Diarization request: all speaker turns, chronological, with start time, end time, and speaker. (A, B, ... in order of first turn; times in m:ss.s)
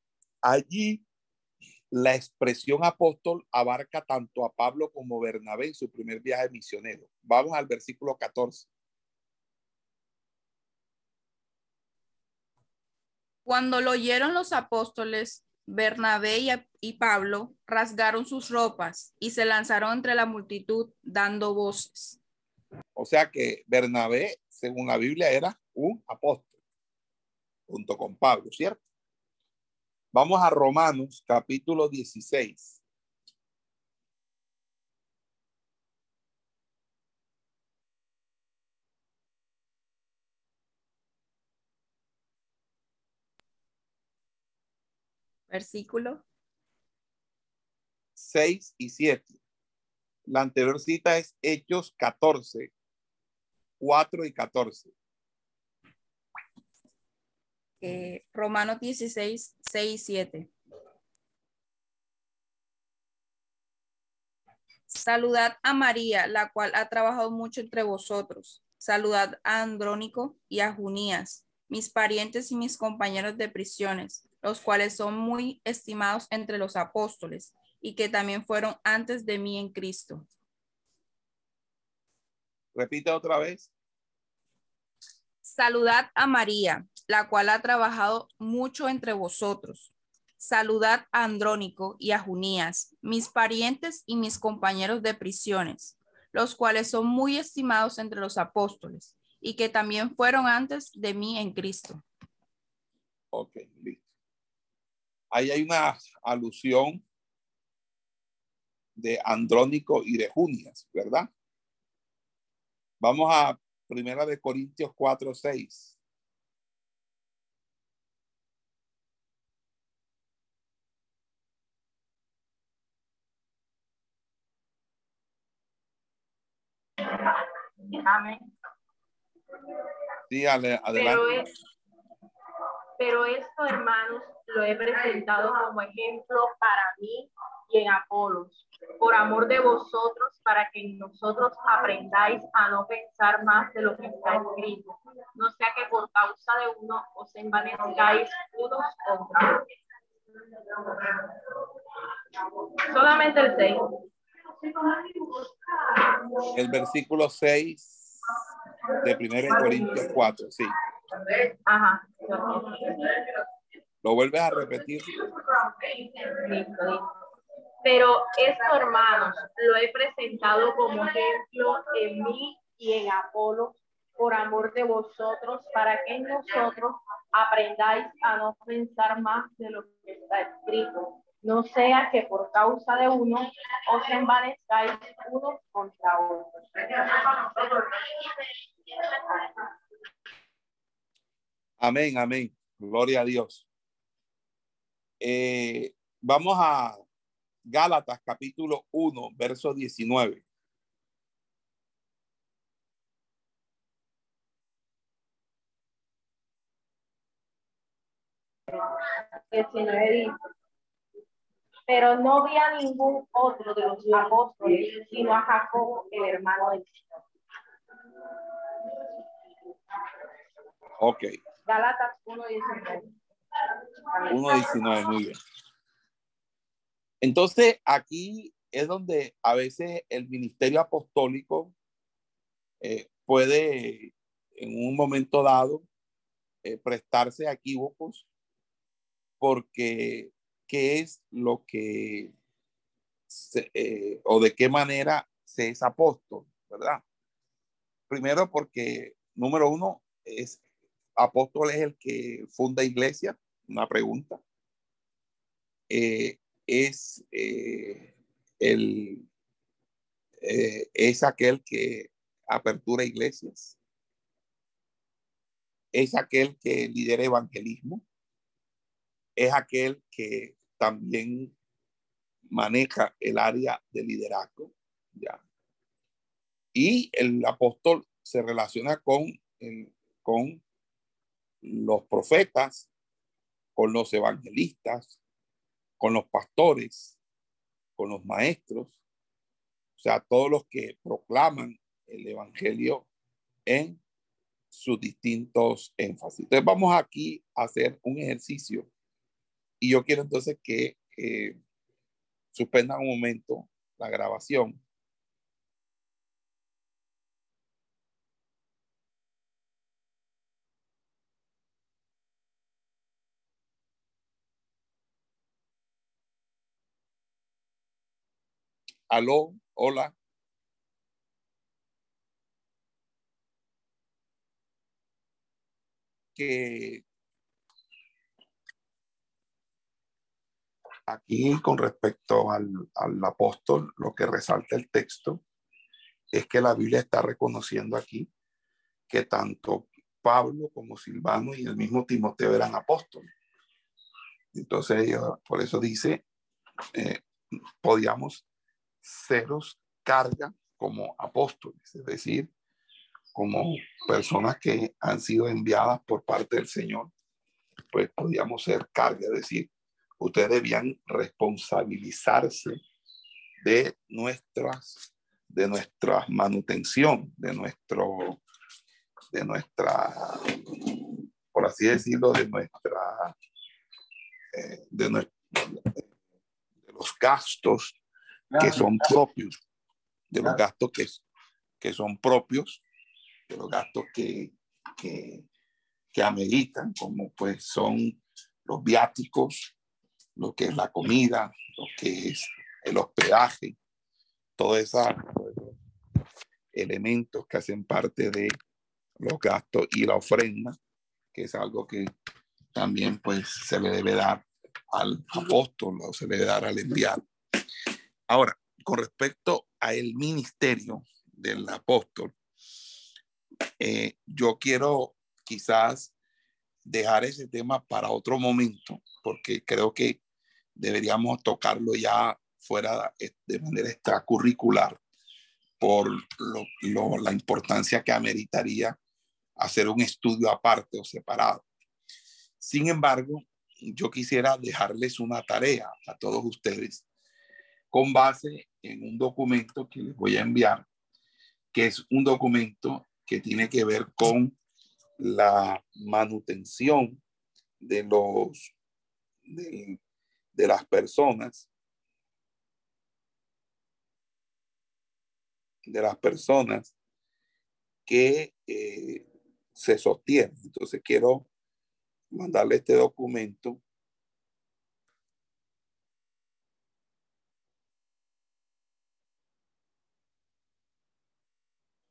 0:00.4-0:01.0 A
0:01.9-0:08.7 A
0:13.4-0:22.2 B
0:23.0-0:26.5 A
0:27.7-0:28.8 A
0:30.1-0:32.8 A
0:45.5-0:46.2 B
0:48.2-0:49.4 A
0:50.3-0:52.7 A
0:53.8-0:54.9 A
0:57.8-1:00.5 B
1:04.9-1:20.3 B
1:22.8-1:23.7 A
1:25.4-1:42.0 B
1:43.3-1:44.0 A
1:45.3-1:47.0 A
1:49.0-1:51.3 A
1:53.0-1:56.0 A
2:07.0-2:08.5 C
2:10.3-2:11.3 A
2:11.0-2:11.5 C
2:13.0-2:29.6 C
2:30.8-2:31.5 C
2:32.6-2:34.0 C
2:34.6-2:36.3 C
2:36.5-2:38.2 A
2:39.0-2:40.7 A
2:39.5-2:40.1 C
2:41.3-2:43.4 C
2:44.0-2:45.1 A
2:45.3-2:47.1 C
2:47.8-3:09.7 C
3:11.8-3:13.7 A
3:15.2-3:17.0 A
3:17.7-3:20.4 A
3:28.7-3:30.3 C
3:31.9-3:36.9 C
3:41.0-3:41.3 A
3:41.6-3:43.1 C
3:44.1-3:45.0 C
3:44.3-3:45.4 A
3:47.2-3:51.7 A
3:52.8-3:55.8 A
3:56.6-3:58.2 A
3:59.4-4:02.3 A
4:03.3-4:07.0 A
4:08.1-4:10.6 A
4:11.2-4:14.4 A
4:15.9-4:19.2 A
4:20.4-4:23.8 A
4:25.9-4:28.0 A
4:29.4-4:31.5 A
4:32.5-4:35.4 A
4:36.7-4:40.6 A
4:41.6-4:42.9 A
4:43.8-4:45.2 A
4:46.0-4:47.2 A
4:48.0-4:49.0 A
4:50.0-4:53.1 A
4:53.6-4:54.0 A
4:54.7-4:58.9 A
4:59.8-5:01.6 A
5:02.5-5:04.8 A
5:19.1-5:20.1 A
5:26.4-5:27.0 A
5:31.1-5:35.4 A
5:36.3-5:38.3 A
5:39.1-5:43.2 A
5:44.5-5:46.2 A
5:46.9-5:47.2 A
5:47.8-5:48.4 A
5:49.0-5:52.5 A
5:53.3-5:57.1 A
5:57.9-6:02.8 A
6:03.6-6:08.4 A
6:09.3-6:13.3 A
6:14.5-6:16.0 A
6:16.8-6:18.0 A
6:18.5-6:19.6 A
6:20.3-6:21.2 A
6:21.8-6:22.8 A
6:23.5-6:25.5 A
6:26.1-6:29.7 A
6:30.4-6:33.8 A
6:34.6-6:35.8 A
6:36.7-6:38.5 A
6:39.2-6:40.8 A
6:41.3-6:42.1 A
6:42.8-6:47.2 A
6:48.3-6:52.3 A
6:53.8-6:56.1 A
6:56.8-7:00.2 A
7:00.8-7:05.0 A
7:05.8-7:09.0 A
7:09.6-7:11.6 A
7:12.6-7:17.0 A
7:17.9-7:20.8 A
7:21.7-7:24.6 A
7:25.2-7:27.2 A
7:27.8-7:28.7 A
7:29.5-7:30.0 A
7:30.5-7:31.7 A
7:35.8-7:36.9 A
7:38.1-7:41.5 A
7:42.3-7:43.8 A